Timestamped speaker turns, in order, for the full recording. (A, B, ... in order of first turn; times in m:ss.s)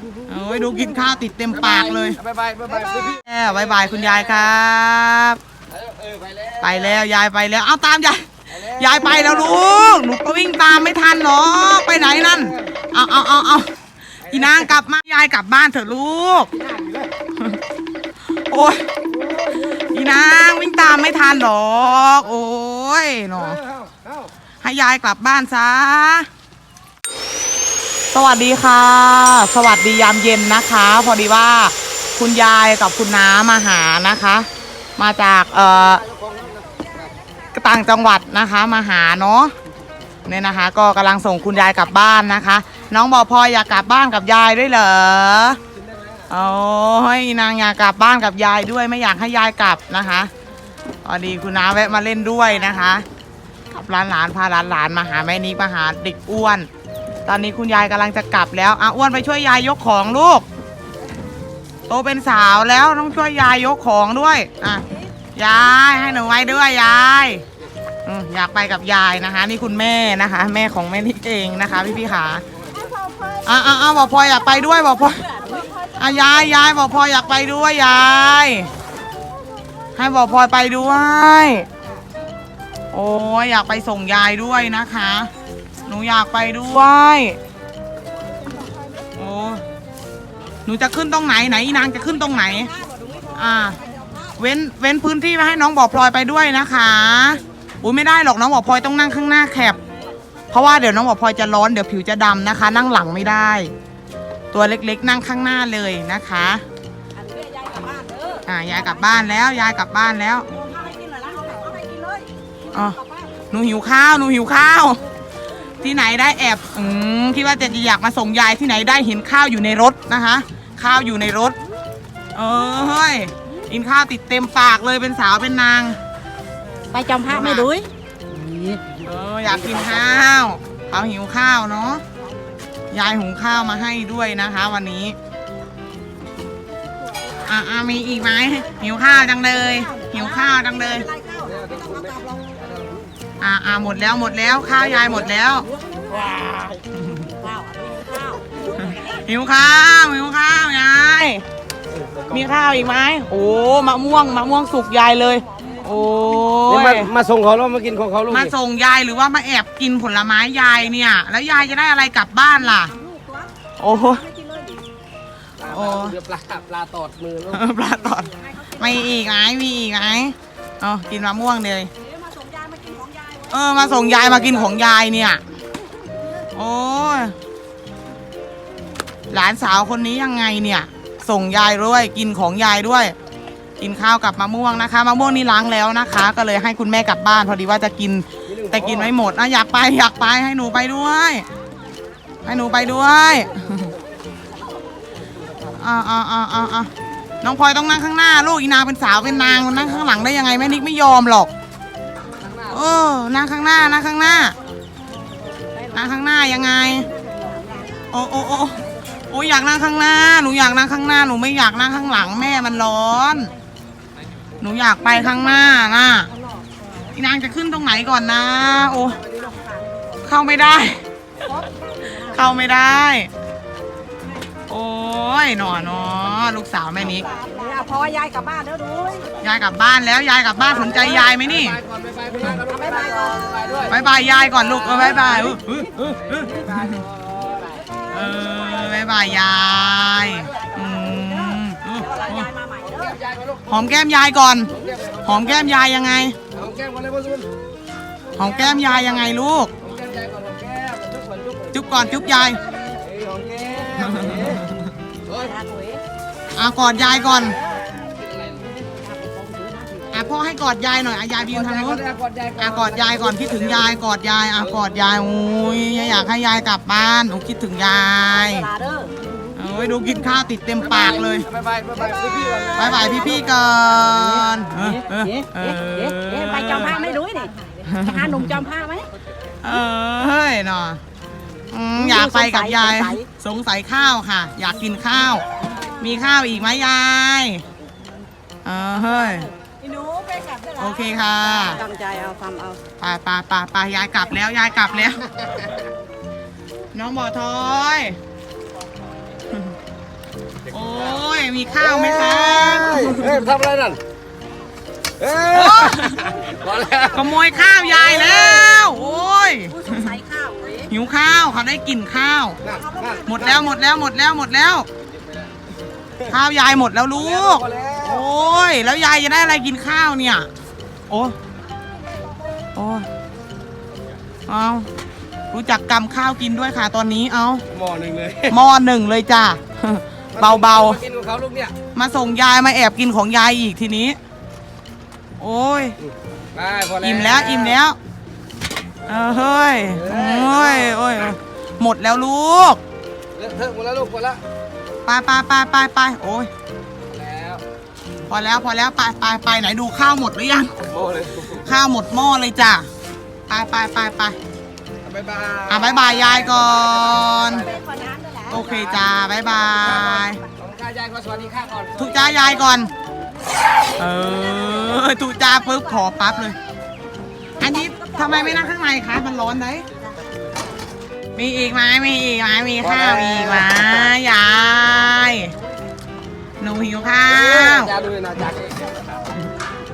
0:00.3-0:05.4 A
0:01.5-0:03.2 B
0:03.9-0:04.2 B
0:05.7-0:07.0 B
0:06.6-0:16.5 A
0:08.5-0:09.5 B
0:12.3-0:12.7 B
0:16.5-0:17.1 B
0:18.3-0:19.0 A
0:19.1-0:19.9 B
0:19.7-0:23.6 A
0:23.5-0:24.2 B
0:24.6-0:26.3 A
0:28.1-0:36.0 A
0:36.0-0:37.1 B
0:37.5-0:39.5 A
0:40.3-0:45.6 A
0:46.3-0:50.3 A
0:51.0-0:53.0 A
0:53.7-0:56.7 A
0:57.3-1:00.5 A
1:01.9-1:07.4 A
1:08.0-1:12.4 A
1:12.7-1:16.6 C
1:13.4-1:15.4 A
1:16.0-1:18.7 A
1:20.0-1:21.7 A
1:22.9-1:25.3 A
1:25.8-1:27.4 A
1:28.6-1:29.0 C
1:29.2-1:29.6 A
1:30.6-1:32.7 A
1:32.2-1:34.3 C
1:33.4-1:33.8 A
1:34.4-1:39.8 A
1:40.5-1:43.7 A
1:44.5-1:46.6 A
1:47.2-1:48.5 C
1:48.5-1:50.5 A
1:50.5-1:53.4 C
1:52.7-1:53.0 A
1:53.5-1:55.0 A
1:55.8-2:01.6 A
2:02.3-2:06.0 A
2:06.9-2:08.8 C
2:07.3-2:07.7 A
2:09.0-2:12.0 A
2:12.9-2:15.2 A
2:17.5-2:21.1 A
2:19.6-2:22.5 C
2:21.5-2:23.1 B
2:23.4-2:27.3 A
2:24.8-2:25.4 B
2:25.6-2:26.4 C
2:27.3-2:29.1 C
2:28.6-2:31.4 A
2:32.3-2:37.1 A
2:36.7-2:38.5 B
2:38.3-2:43.0 A
2:42.9-2:44.8 C
2:43.8-2:44.2 A
2:45.6-2:47.6 B
2:45.6-2:46.2 A
2:47.5-2:51.9 A
2:48.4-2:49.0 C
2:52.0-2:53.6 C
2:53.5-2:55.4 A
2:53.9-2:54.7 B
2:56.5-2:57.4 A
2:59.3-3:03.2 A
3:03.8-3:11.5 A
3:08.5-3:09.1 B
3:12.4-3:13.9 A
3:15.8-3:21.5 A
3:19.8-3:20.2 B
3:22.4-3:22.8 B
3:22.7-3:24.6 A
3:25.4-3:26.1 C
3:25.9-3:27.1 A
3:27.0-3:28.1 C
3:28.1-3:33.5 A
3:34.6-3:36.3 A
3:35.3-3:36.7 C
3:37.1-3:39.3 A
3:39.3-3:40.1 C
3:40.2-3:41.0 A
3:41.4-3:42.4 C
3:42.2-3:43.3 A
3:44.7-3:47.3 A
3:47.1-3:49.4 C
3:49.4-3:51.8 A
3:51.1-3:53.9 B
3:52.6-3:54.0 C
3:53.8-3:57.0 A
3:54.7-3:55.0 B
3:54.9-3:55.3 C
3:56.0-3:57.8 B
3:57.6-3:58.6 C
3:58.1-4:02.5 A
4:00.6-4:03.2 C
4:02.8-4:03.8 B
4:03.7-4:06.4 A
4:04.7-4:05.7 B
4:06.5-4:07.5 B
4:08.4-4:09.7 A
4:09.8-4:12.4 B
4:11.7-4:12.6 A
4:12.9-4:14.6 B
4:14.0-4:14.7 A
4:15.3-4:15.6 B
4:15.3-4:16.0 C
4:16.6-4:17.6 A
4:17.0-4:17.8 C
4:18.1-4:18.7 B
4:18.8-4:20.2 C
4:20.1-4:22.0 A
4:21.6-4:23.8 B
4:22.6-4:28.7 A
4:28.4-4:29.3 C
4:29.6-4:31.5 A
4:30.8-4:33.6 B
4:32.0-4:33.3 C
4:32.7-4:37.0 A
4:34.7-4:39.1 C
4:37.8-4:38.6 A
4:39.6-4:41.0 A
4:41.7-4:47.6 A
4:42.0-4:43.3 C
4:45.7-4:46.0 C
4:48.6-4:49.5 A
4:49.2-4:52.8 C
4:50.8-4:51.8 A
4:53.0-4:55.3 A
4:56.9-4:58.2 A
5:00.7-5:03.4 A
5:01.8-5:04.0 B
5:05.2-5:07.2 B
5:05.4-5:06.4 A
5:07.0-5:10.2 A
5:08.0-5:08.3 B
5:09.7-5:10.9 C
5:10.9-5:12.6 A
5:12.6-5:13.4 B
5:12.7-5:13.6 C
5:13.3-5:14.9 A
5:16.3-5:20.5 A
5:17.2-5:18.2 B
5:21.1-5:21.4 A
5:22.0-5:22.4 C
5:22.8-5:23.1 A
5:24.5-5:24.9 A
5:25.5-5:27.6 A
5:27.7-5:28.6 B
5:28.5-5:31.0 A
5:30.4-5:31.8 B
5:31.9-5:34.2 A
5:35.4-5:36.0 A
5:36.5-5:37.8 B
5:37.0-5:38.0 A
5:39.1-5:42.8 A
5:39.9-5:40.9 B
5:43.4-5:44.4 B
5:45.1-5:46.5 A
5:47.1-5:47.6 B
5:48.3-5:50.8 A
5:50.8-5:51.6 B
5:51.5-5:52.9 A
5:53.5-5:54.4 A
5:55.0-5:57.6 B
5:55.7-5:57.7 A
5:57.5-5:58.8 C
5:58.5-6:00.4 A
6:00.6-6:02.5 B
6:02.0-6:02.9 A
6:03.9-6:06.6 A
6:04.5-6:06.1 C
6:07.6-6:08.4 C
6:07.6-6:09.9 A
6:11.4-6:15.6 A
6:12.8-6:14.1 B
6:16.6-6:18.0 A
6:17.3-6:18.9 B